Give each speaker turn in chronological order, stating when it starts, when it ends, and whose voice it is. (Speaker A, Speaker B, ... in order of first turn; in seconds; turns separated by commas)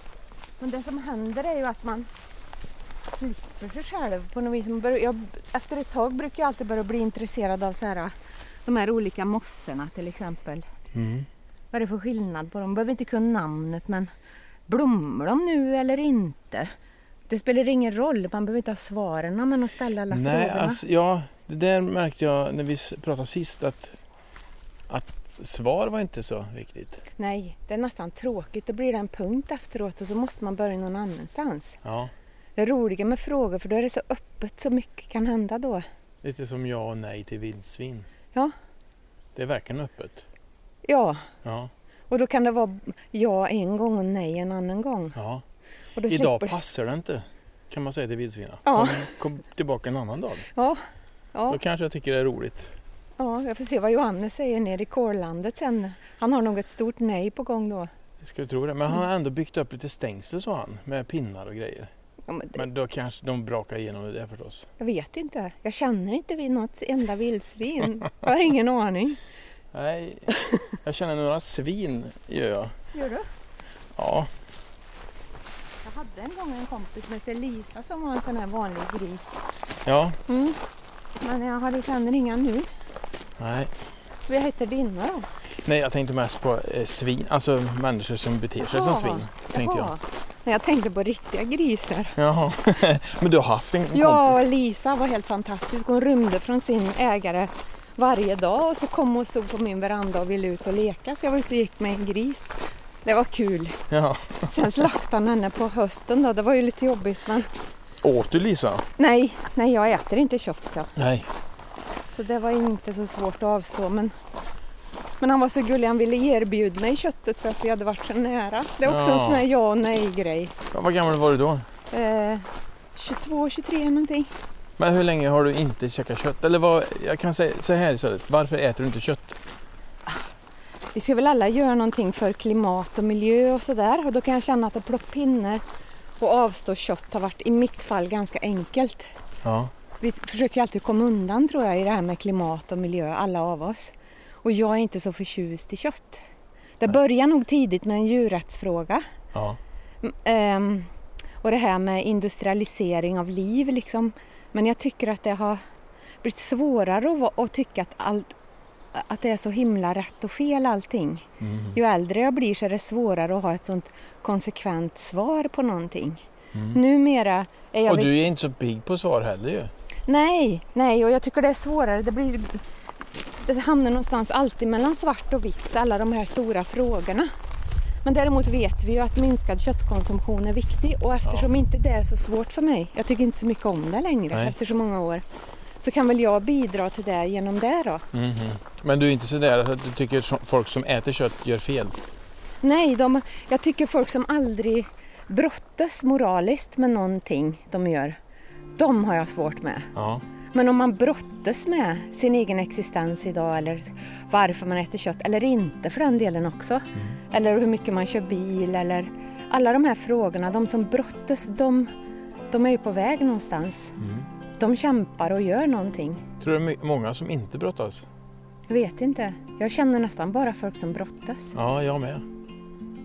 Speaker A: 0.6-2.1, Speaker A: 3.1-8.1, Speaker A: 8.7-10.6, Speaker B: 10.9-11.3, Speaker A: 11.7-14.1, Speaker A: 14.7-16.7, Speaker A: 17.3-20.8, Speaker B: 20.1-24.0, Speaker B: 24.9-27.0, Speaker A: 27.2-31.8, Speaker B: 31.8-32.1, Speaker A: 32.5-35.8, Speaker B: 36.2-38.1, Speaker B: 39.4-40.2, Speaker A: 40.8-41.2, Speaker B: 41.4-41.7, Speaker A: 42.1-45.1, Speaker B: 45.1-45.4, Speaker A: 46.0-46.6, Speaker B: 46.1-50.5, Speaker A: 48.6-49.1, Speaker A: 50.5-50.8, Speaker A: 51.3-51.6, Speaker B: 51.5-52.7, Speaker A: 53.2-57.9, Speaker B: 58.2-61.9, Speaker A: 62.3-62.6, Speaker B: 62.5-64.7, Speaker A: 64.8-69.2, Speaker B: 69.7-72.7, Speaker A: 72.9-73.2, Speaker B: 73.9-74.3, Speaker A: 75.8-79.4, Speaker B: 79.9-80.2, Speaker A: 80.3-80.6, Speaker A: 81.2-82.7, Speaker B: 83.4-83.7, Speaker A: 84.3-85.3, Speaker B: 85.6-89.9, Speaker A: 88.6-92.2, Speaker B: 92.2-94.4, Speaker A: 93.9-103.8, Speaker B: 103.9-104.5, Speaker A: 104.4-107.5, Speaker B: 108.0-108.9, Speaker A: 109.0-110.9, Speaker B: 111.0-111.3, Speaker A: 112.1-114.1, Speaker A: 115.2-120.5, Speaker B: 118.8-119.5, Speaker B: 120.7-121.6, Speaker A: 121.9-124.3, Speaker B: 124.8-129.4, Speaker A: 130.9-135.6, Speaker A: 136.2-139.1, Speaker B: 139.4-139.7, Speaker A: 140.0-146.2, Speaker A: 146.8-149.0, Speaker A: 150.0-150.9, Speaker A: 151.4-155.6, Speaker A: 156.2-158.3, Speaker A: 158.9-166.2, Speaker B: 161.4-161.8, Speaker B: 166.5-166.8, Speaker A: 166.7-168.2, Speaker B: 167.9-169.7, Speaker A: 170.1-172.6, Speaker A: 173.3-177.3, Speaker A: 178.0-185.2, Speaker B: 181.2-181.5, Speaker A: 185.8-188.0, Speaker B: 188.1-191.9, Speaker A: 192.6-198.2, Speaker A: 198.8-199.9, Speaker B: 199.9-200.2, Speaker A: 200.5-211.9, Speaker A: 212.5-213.9, Speaker B: 214.0-214.3, Speaker A: 214.6-216.2, Speaker B: 216.4-218.1, Speaker A: 218.7-221.5, Speaker B: 221.5-222.2